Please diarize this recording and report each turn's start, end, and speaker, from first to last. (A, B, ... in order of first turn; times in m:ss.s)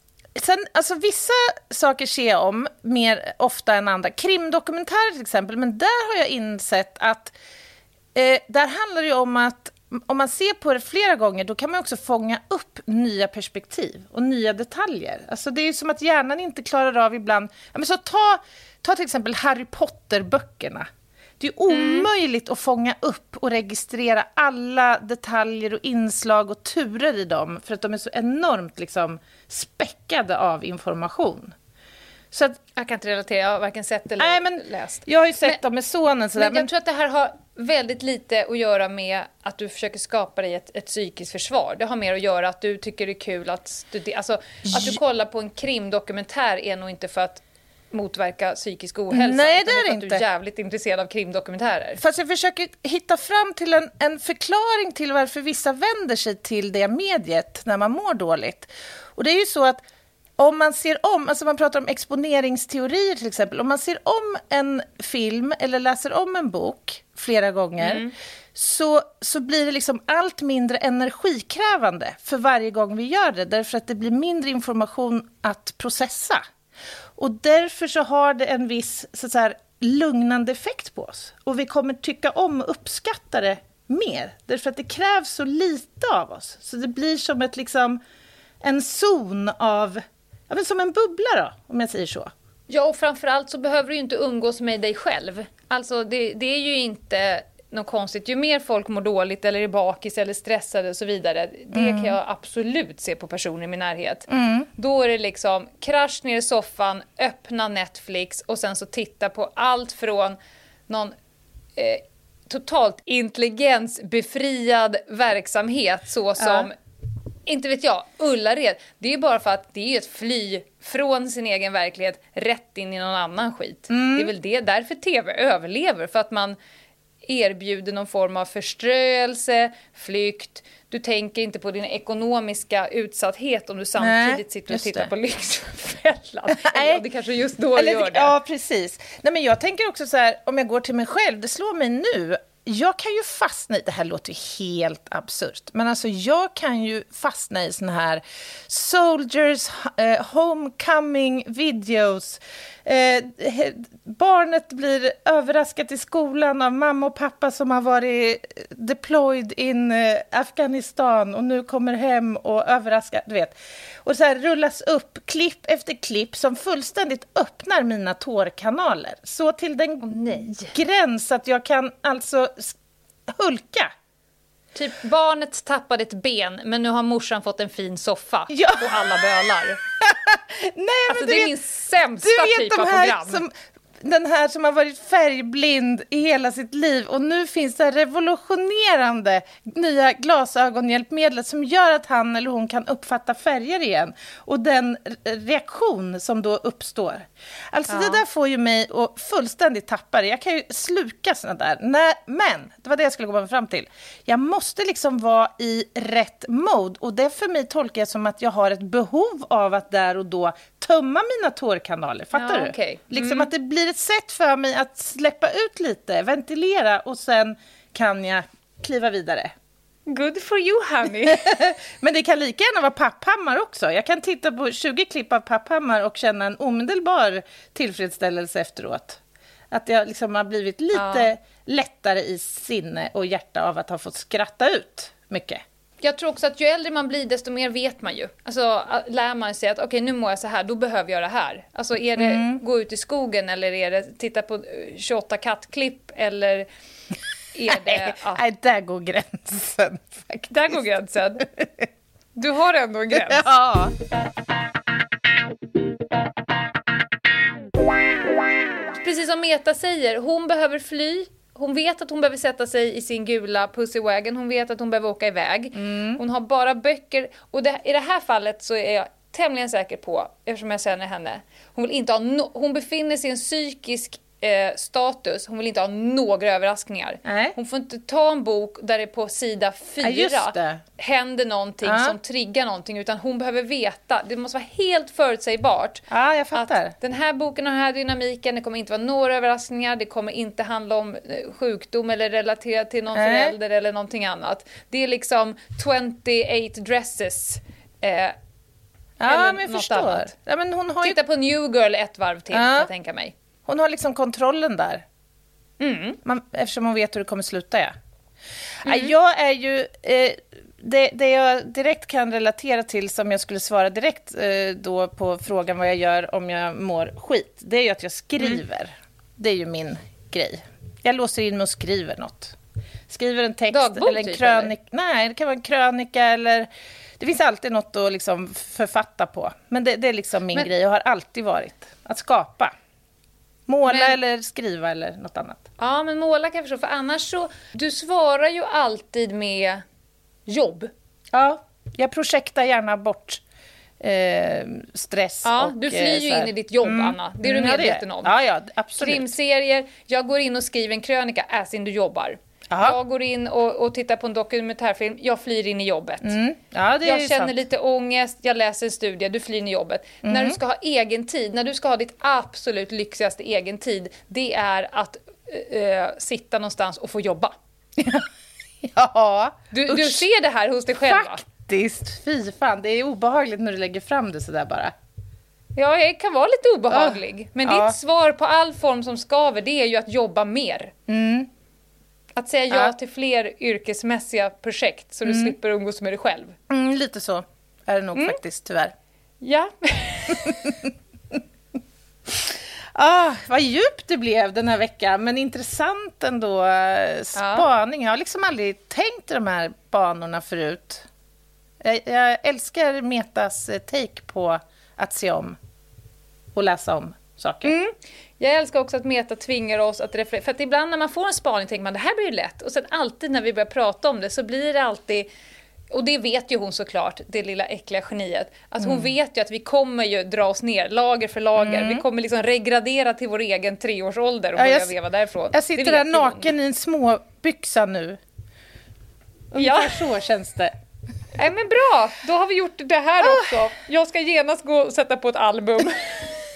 0:00.4-0:07.3 A
0:08.1-0:20.9 A
0:21.4-0:31.5 A
0:21.7-0:22.1 B
0:32.3-0:32.6 A
0:32.8-0:35.6 B
0:34.2-0:36.7 A
0:36.4-0:52.0 B
0:44.6-0:45.0 A
0:49.1-0:50.2 A
0:52.0-0:59.8 A
1:00.4-1:16.4 A
1:07.8-1:08.1 B
1:17.2-1:28.0 A
1:28.6-1:32.3 A
1:32.7-1:50.4 B
1:41.7-1:42.2 A
1:44.3-1:44.7 A
1:50.9-1:51.1 B
1:51.8-1:56.7 B
1:56.4-1:56.7 A
1:57.4-2:06.6 B
2:03.9-2:04.3 A
2:07.2-2:18.3 B
2:14.0-2:15.1 A
2:16.5-2:17.0 A
2:17.8-2:52.8 A
2:50.0-2:50.7 B
2:53.3-2:53.9 A
2:54.7-2:59.8 B
2:58.5-2:59.1 A
3:00.0-3:01.5 A
3:01.1-3:03.4 B
3:02.2-3:39.5 A
3:17.9-3:18.2 B
3:32.3-3:33.5 B
3:40.1-3:41.5 B
3:41.3-3:49.2 A
3:49.7-3:55.6 A
3:50.9-3:51.3 B
3:56.0-4:06.7 B
4:02.2-4:02.6 A
4:07.5-4:08.4 B
4:07.7-4:10.7 A
4:10.5-4:11.4 B
4:12.4-4:13.5 B
4:13.1-4:13.9 A
4:18.9-4:58.4 B
4:25.7-4:26.2 A
4:37.2-4:37.5 A
4:40.0-4:40.8 A
4:41.8-4:42.2 A
4:46.1-4:46.9 A
4:53.1-4:53.5 A
4:59.2-5:01.2 A
4:59.3-5:00.3 B
5:01.0-5:03.3 B
5:02.5-5:02.9 A
5:03.7-5:05.0 A
5:05.8-5:06.2 B
5:06.2-5:07.9 A
5:08.8-5:22.5 A
5:08.8-5:09.1 B
5:23.1-5:26.7 A
5:23.7-5:24.7 B
5:27.2-5:32.7 A
5:33.7-5:35.6 A
5:33.9-5:34.2 B
5:35.8-5:39.8 B
5:40.5-5:40.9 B
5:41.3-5:43.4 A
5:44.0-5:49.3 A
5:45.4-5:48.3 B
5:49.0-5:56.3 B
5:52.7-5:53.0 A
5:56.2-5:57.5 A
5:57.0-6:07.6 B
6:00.2-6:00.6 A
6:08.0-6:08.3 A
6:08.8-6:10.2 A
6:09.7-6:11.4 B
6:11.1-6:14.9 A
6:15.8-6:20.9 B
6:16.9-6:18.0 A
6:21.1-6:21.5 A
6:22.4-6:26.5 B
6:25.2-6:25.5 A
6:26.7-6:28.9 A
6:29.4-6:30.7 B
6:30.4-6:30.7 A
6:32.9-6:41.0 A
6:37.4-6:37.7 B
6:41.8-6:45.6 A
6:46.5-6:47.7 A
6:47.6-6:55.3 B
6:55.9-7:06.5 B
6:58.8-6:59.1 A
7:01.6-7:02.0 A
7:04.6-7:04.9 A
7:05.5-7:08.2 A
7:09.5-7:10.7 A
7:09.6-7:10.0 B
7:11.4-7:16.4 B
7:13.2-7:13.5 A